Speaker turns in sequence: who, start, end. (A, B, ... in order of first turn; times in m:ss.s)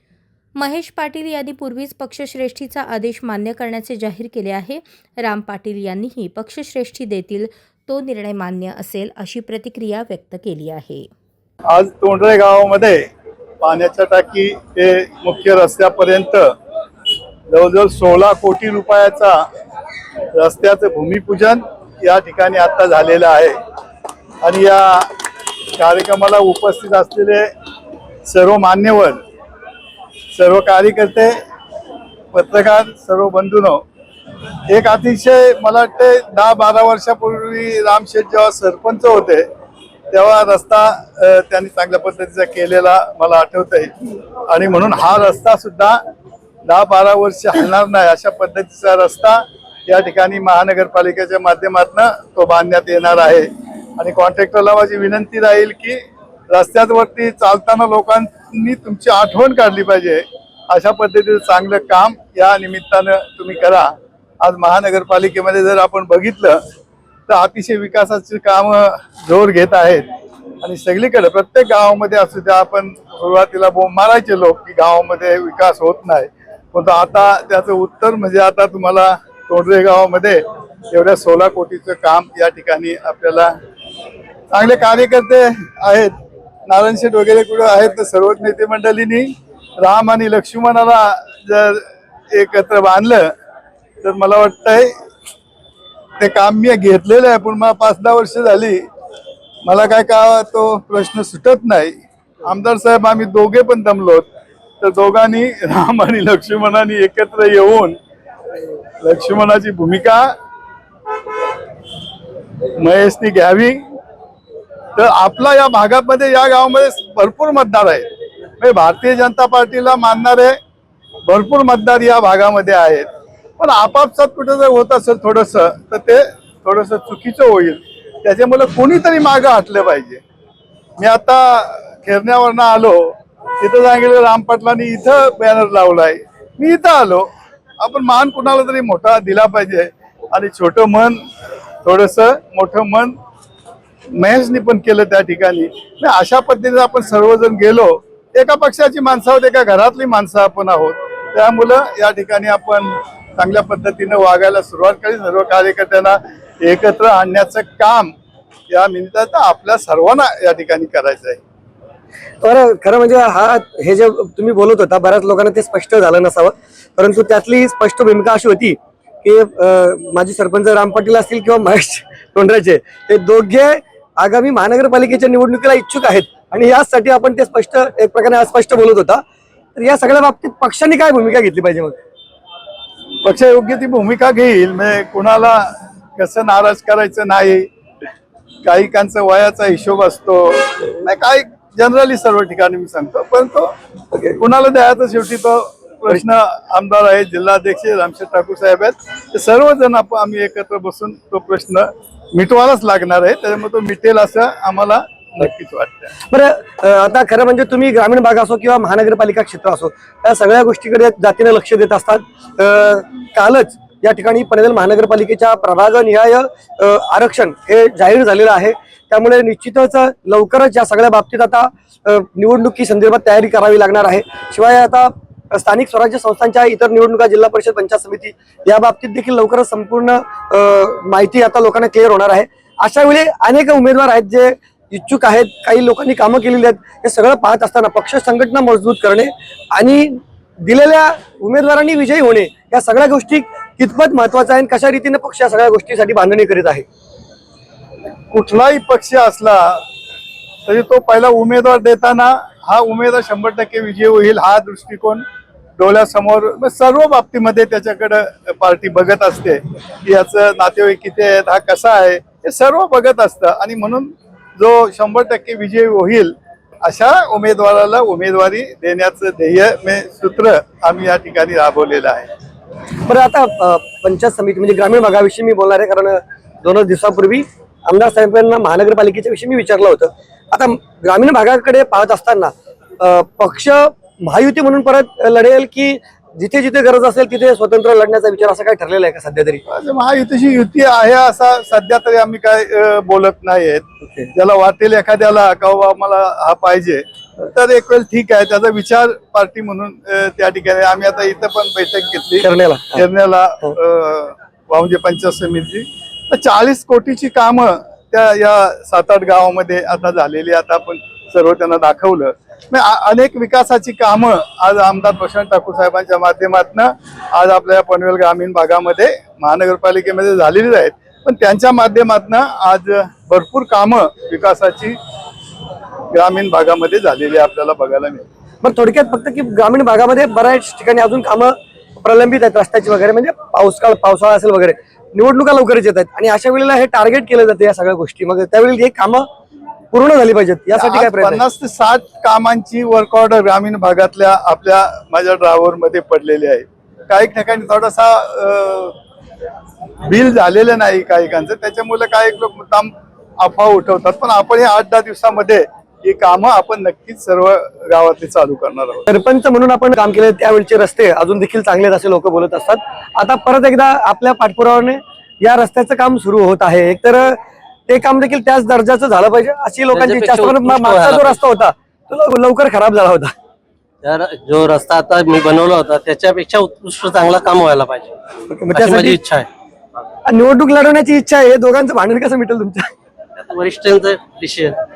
0:00.6-0:11.1 A
0:11.7-0:13.1 B
0:13.6-0:16.5 B
0:17.5-0:19.4 B
0:20.4-0:23.6 B
0:24.4-0:25.1 B
0:25.8-0:27.5 B
0:28.3-0:29.2 B
0:30.4-0:31.4 B
0:32.3-0:33.8 B
0:34.7-0:39.5 B
0:40.1-0:43.9 B
0:44.5-0:46.0 B
0:46.7-1:06.6 B
1:07.3-1:10.1 B
1:10.6-1:23.5 B
1:24.5-1:26.1 B
1:26.7-1:33.3 B
1:34.0-1:34.9 B
1:36.2-1:38.8 B
1:39.6-1:44.3 B
1:44.8-1:48.0 B
1:49.0-1:50.3 B
1:52.8-1:53.8 B
1:55.0-1:58.1 B
1:58.6-2:00.6 B
2:01.3-2:03.1 B
2:03.6-2:10.2 B
2:11.0-2:17.3 B
2:17.8-2:21.2 B
2:21.8-2:23.2 B
2:24.2-2:38.1 B
2:38.7-2:41.4 B
2:42.4-2:59.2 C
2:59.8-3:02.0 C
3:03.2-3:07.7 B
3:08.6-3:13.7 B
3:14.4-3:26.1 B
3:26.3-4:06.8 C
4:08.3-4:09.8 B
4:10.7-4:15.2 B
4:15.8-4:32.3 B
4:33.0-4:49.6 C
4:49.7-5:25.0 B
4:54.0-4:54.3 C
5:02.4-5:03.0 C
5:26.1-5:28.2 B
5:28.6-5:39.3 C
5:39.9-5:41.4 C
5:40.8-5:49.0 B
5:50.0-5:59.0 B
5:59.1-6:13.3 C
6:09.9-6:11.4 D
6:14.0-6:18.1 D
6:18.5-6:19.2 C
6:18.7-6:19.5 D
6:20.2-6:22.9 C
6:23.4-6:24.8 D